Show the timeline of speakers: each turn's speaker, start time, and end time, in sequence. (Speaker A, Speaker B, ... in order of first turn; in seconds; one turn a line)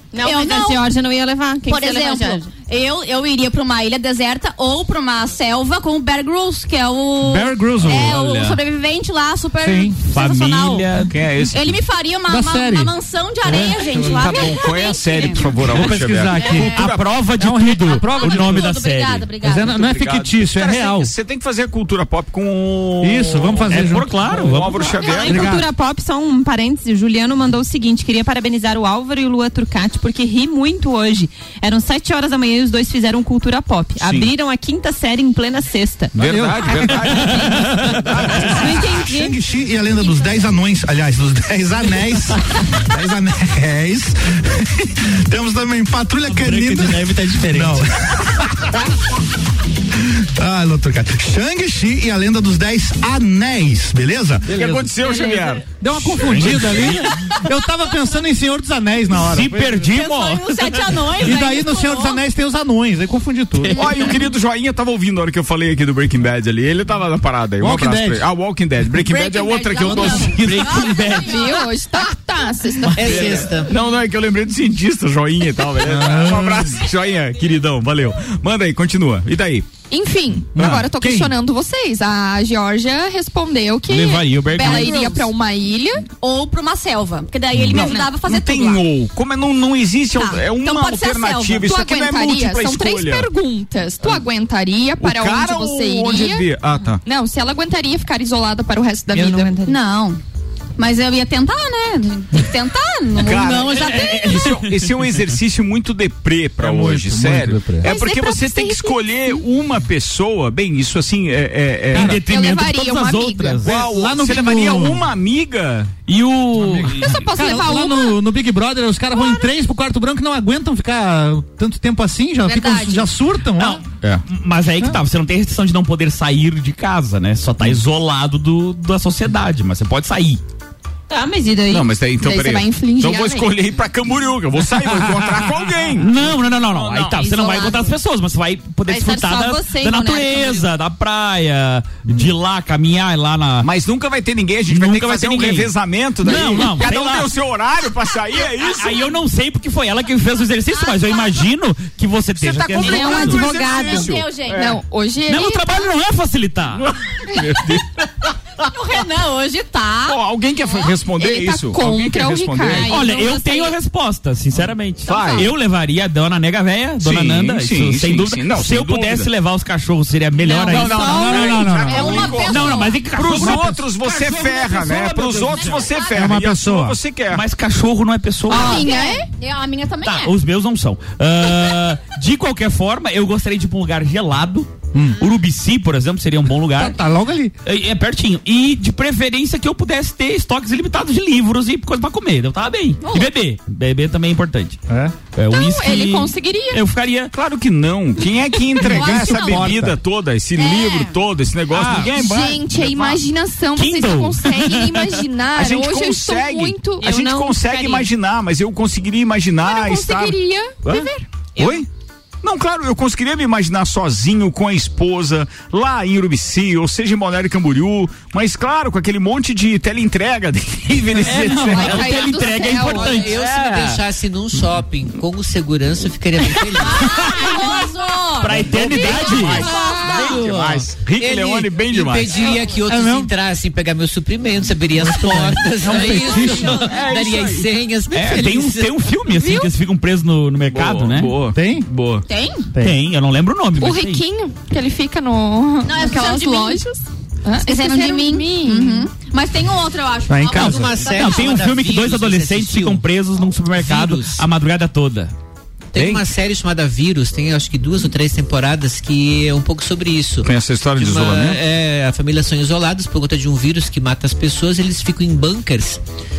Speaker A: 0.1-0.9
Speaker B: 0.1-2.5
Speaker A: 1.6-10.9
Speaker C: 7.2-8.4
Speaker D: 7.9-8.4
Speaker C: 9.6-10.0
Speaker D: 10.1-11.1
Speaker E: 11.1-11.8
Speaker A: 11.5-15.7
Speaker C: 12.2-14.4
Speaker E: 14.0-17.2
Speaker C: 15.6-18.7
Speaker A: 16.4-16.8
Speaker D: 16.6-19.3
Speaker A: 17.9-19.8
Speaker C: 19.4-21.1
Speaker E: 19.7-25.6
Speaker C: 23.0-24.6
Speaker D: 23.7-25.0
Speaker B: 25.0-36.1
Speaker C: 25.2-25.7
Speaker E: 34.0-34.3
Speaker E: 36.1-38.9
Speaker C: 36.2-37.4
Speaker D: 37.0-38.0
Speaker B: 38.4-39.4
Speaker F: 38.6-47.9
Speaker C: 46.3-47.9
Speaker F: 50.1-54.5
Speaker E: 54.5-57.0
Speaker C: 54.6-54.9
Speaker C: 55.6-59.8
Speaker D: 56.3-57.0
Speaker D: 59.1-61.1
Speaker A: 59.8-62.2
Speaker C: 61.2-63.9
Speaker E: 63.7-70.5
Speaker C: 67.6-68.2
Speaker A: 69.0-71.7
Speaker D: 70.2-71.5
Speaker G: 71.2-73.5
Speaker H: 72.9-73.7
Speaker E: 73.0-79.7
Speaker C: 75.8-76.8
Speaker G: 79.9-86.0
Speaker E: 80.6-80.9
Speaker C: 80.6-81.3
Speaker D: 83.9-85.2
Speaker A: 84.5-85.3
Speaker A: 86.2-88.8
Speaker E: 87.5-93.3
Speaker A: 90.1-91.7
Speaker G: 91.6-96.5
Speaker E: 95.0-97.0
Speaker G: 97.0-99.6
Speaker B: 99.1-99.8
Speaker A: 99.6-100.2
Speaker A: 100.8-104.6
Speaker E: 103.2-112.2
Speaker D: 103.8-104.5
Speaker C: 106.6-107.9
Speaker G: 107.8-109.4
Speaker C: 111.9-112.2
Speaker D: 111.9-113.7
Speaker G: 112.1-113.7
Speaker C: 113.6-115.1
Speaker E: 113.6-115.9
Speaker D: 116.1-117.2
Speaker C: 116.5-123.8
Speaker G: 117.0-118.2
Speaker A: 122.5-123.1
Speaker D: 123.6-130.4
Speaker B: 131.1-131.9
Speaker E: 131.7-137.2
Speaker G: 132.2-133.5
Speaker D: 136.0-143.7
Speaker A: 137.3-137.9
Speaker A: 138.9-140.6
Speaker B: 139.1-140.6
Speaker E: 143.6-149.0
Speaker D: 144.7-147.3
Speaker D: 148.6-153.5
Speaker A: 150.7-151.3
Speaker E: 152.4-154.8
Speaker A: 152.8-154.7
Speaker B: 152.9-154.1
Speaker G: 154.6-155.8
Speaker D: 155.3-156.9
Speaker E: 156.8-158.1
Speaker A: 158.7-160.9
Speaker E: 160.1-162.9
Speaker G: 161.2-162.9
Speaker A: 162.7-163.7
Speaker D: 162.7-176.0
Speaker E: 165.1-165.5
Speaker A: 165.1-165.4
Speaker E: 167.0-169.3
Speaker A: 170.5-173.0
Speaker E: 170.6-177.4
Speaker C: 170.9-172.3
Speaker C: 173.1-173.8
Speaker A: 175.6-176.3
Speaker C: 176.1-177.0
Speaker D: 177.3-178.9
Speaker A: 178.5-180.3
Speaker G: 178.5-179.2
Speaker D: 180.0-187.0
Speaker C: 184.9-185.2
Speaker C: 186.7-187.5
Speaker D: 187.6-194.8
Speaker A: 193.0-193.3
Speaker C: 194.9-195.2
Speaker D: 195.3-197.3
Speaker G: 195.5-196.8
Speaker E: 197.3-203.2
Speaker A: 198.8-199.8
Speaker C: 198.8-200.0
Speaker A: 200.6-201.2
Speaker D: 201.7-202.1
Speaker G: 202.1-207.2
Speaker D: 203.7-205.2
Speaker E: 205.6-211.9
Speaker B: 207.0-208.1
Speaker G: 209.6-211.2
Speaker E: 212.4-222.2
Speaker D: 221.1-224.0
Speaker G: 221.6-223.3
Speaker H: 222.9-227.2
Speaker A: 226.9-230.4
Speaker D: 228.4-229.7
Speaker E: 228.6-232.6
Speaker H: 231.1-238.9
Speaker C: 232.8-233.3
Speaker C: 234.9-236.8
Speaker D: 235.8-236.4
Speaker E: 236.7-237.7
Speaker D: 238.1-241.3
Speaker G: 239.3-239.7
Speaker E: 240.7-242.2
Speaker C: 241.5-241.9
Speaker A: 242.3-242.7
Speaker D: 242.8-244.2
Speaker G: 243.8-249.1
Speaker A: 245.8-246.8
Speaker A: 247.6-251.5
Speaker C: 250.3-250.9
Speaker H: 250.5-253.0
Speaker D: 251.0-255.3
Speaker H: 253.7-254.4
Speaker H: 255.9-266.0
Speaker E: 255.9-256.2
Speaker E: 260.4-261.6